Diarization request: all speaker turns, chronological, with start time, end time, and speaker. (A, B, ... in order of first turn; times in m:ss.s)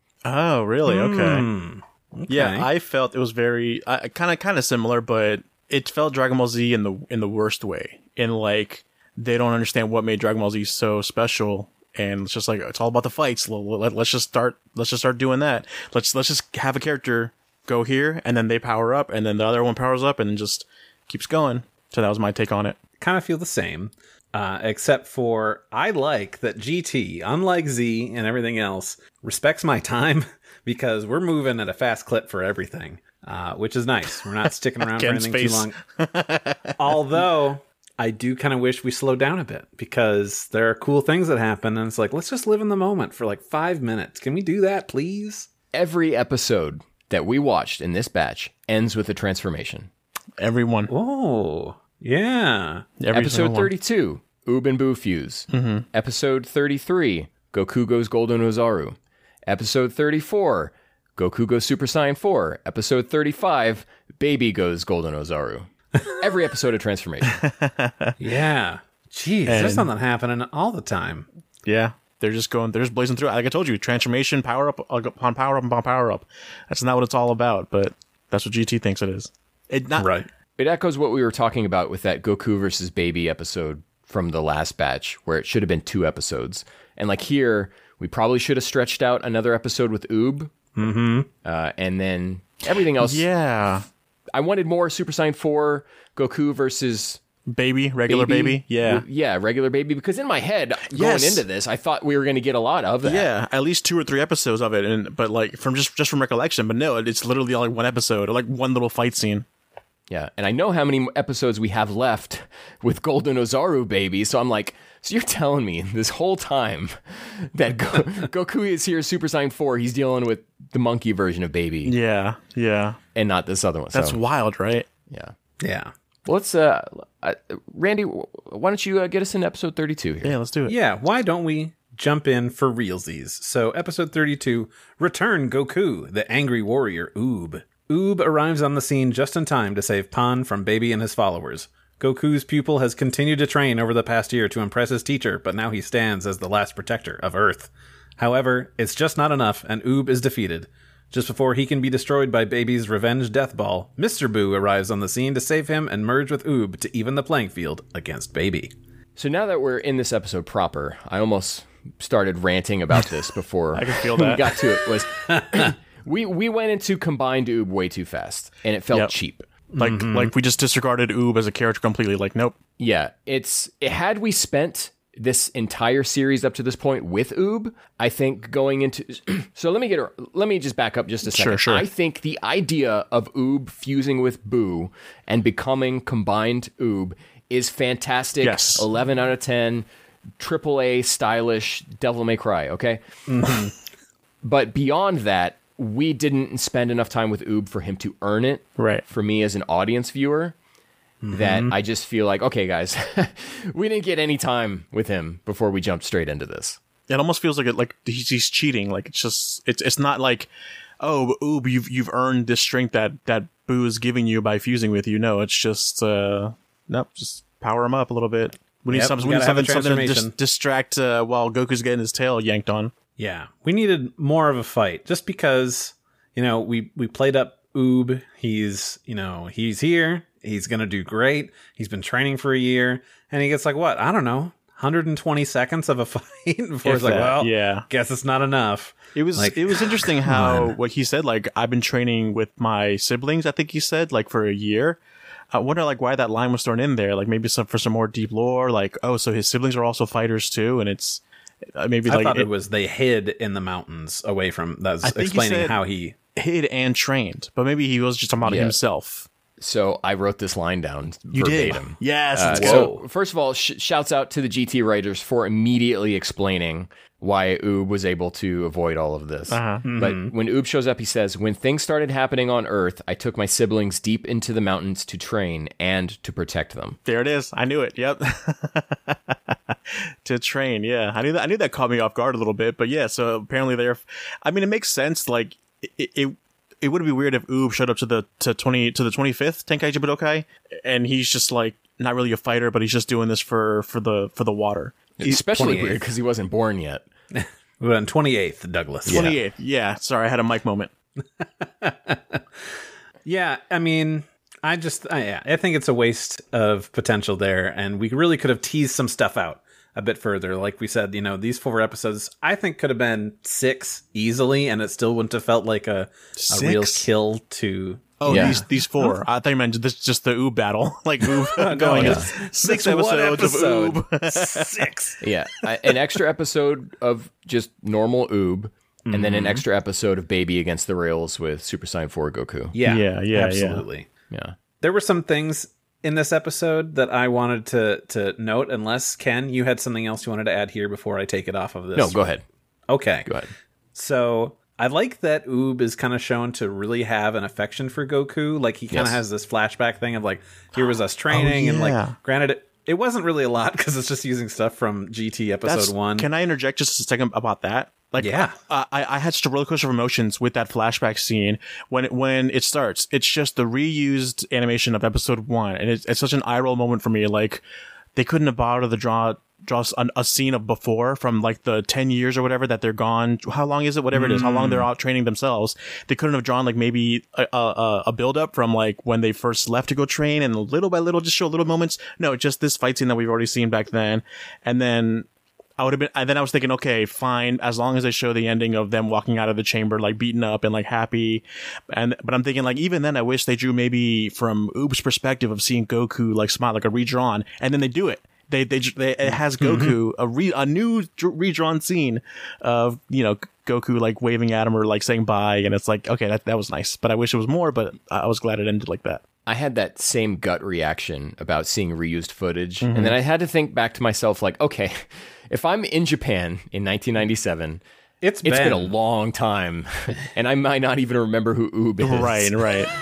0:00.2-0:01.5 A
0:00.8-0:02.7 B
0:02.3-0:22.8 A
0:23.0-0:35.7 B
0:34.8-0:37.0 A
0:36.8-0:45.5 B
0:45.7-0:49.9 C
0:50.4-0:50.9 A
0:50.9-0:52.9 B
0:53.0-0:53.7 A
0:53.1-0:59.0 C
0:55.5-0:55.8 A
0:59.5-1:07.4 C
1:07.3-1:08.2 A
1:08.2-1:11.3 B
1:09.5-1:09.9 A
1:11.6-1:20.1 A
1:20.0-1:20.3 B
1:20.6-1:30.5 C
1:30.8-1:31.3 B
1:31.4-1:33.2 C
1:33.0-1:33.8 A
1:34.3-1:37.2 C
1:37.5-1:39.0 A
1:38.1-1:43.3 C
1:40.9-1:41.4 A
1:43.0-1:49.4 A
1:50.1-2:01.9 C
2:01.8-2:03.0 A
2:03.1-2:04.2 C
2:03.9-2:04.8 A
2:05.1-2:05.3 C
2:05.6-2:05.9 B
2:06.2-2:10.4 C
2:10.2-2:10.8 A
2:10.7-2:38.7 B
2:39.2-2:49.5 C
2:43.7-2:44.6 A
2:49.7-2:50.3 B
2:49.8-2:52.6 A
2:52.8-3:09.9 C
3:01.2-3:01.8 A
3:08.4-3:08.8 A
3:10.4-3:13.0 C
3:13.3-3:13.7 B
3:14.4-3:20.6 C
3:18.8-3:19.0 A
3:21.2-3:21.7 B
3:21.3-3:26.8 C
3:27.1-3:30.5 A
3:31.0-3:42.9 A
3:38.9-3:40.3 B
3:43.2-4:00.6 B
3:56.8-3:57.8 A
3:59.1-4:05.0 A
4:00.3-4:00.6 C
4:05.5-4:11.2 A
4:11.7-4:12.5 A
4:12.0-4:16.2 B
4:15.0-4:15.8 A
4:16.3-4:19.3 A
4:18.4-4:18.8 C
4:19.6-4:37.0 C
4:21.3-4:22.9 A
4:22.5-4:23.0 B
4:29.5-4:29.9 A
4:29.8-4:30.3 B
4:37.0-4:55.4 A
4:55.2-4:57.1 C
4:55.5-4:56.0 B
4:57.3-4:59.4 B
4:59.1-4:59.4 C
4:59.1-5:00.9 A
5:01.6-5:02.4 B
5:03.2-5:18.6 B
5:16.4-5:17.1 A
5:18.2-5:24.8 A
5:18.3-5:18.6 C
5:21.2-5:25.2 B
5:22.0-5:22.3 C
5:25.2-5:32.8 C
5:29.0-5:29.6 B
5:32.7-5:34.1 B
5:32.8-5:33.8 A
5:34.3-5:34.6 C
5:34.8-5:42.2 B
5:41.9-5:42.4 C
5:42.9-5:43.3 B
5:43.2-5:43.5 C
5:43.9-5:56.3 B
5:48.9-5:49.2 C
5:51.3-5:52.2 A
5:55.6-6:07.6 A
5:58.2-5:58.5 B
6:08.1-6:25.2 A
6:14.1-6:14.9 B
6:25.8-6:49.2 A
6:39.6-6:40.0 B
6:49.4-6:57.8 C
6:52.8-6:53.2 A
6:58.2-6:58.9 B
6:58.4-7:02.6 C
7:02.0-7:02.9 A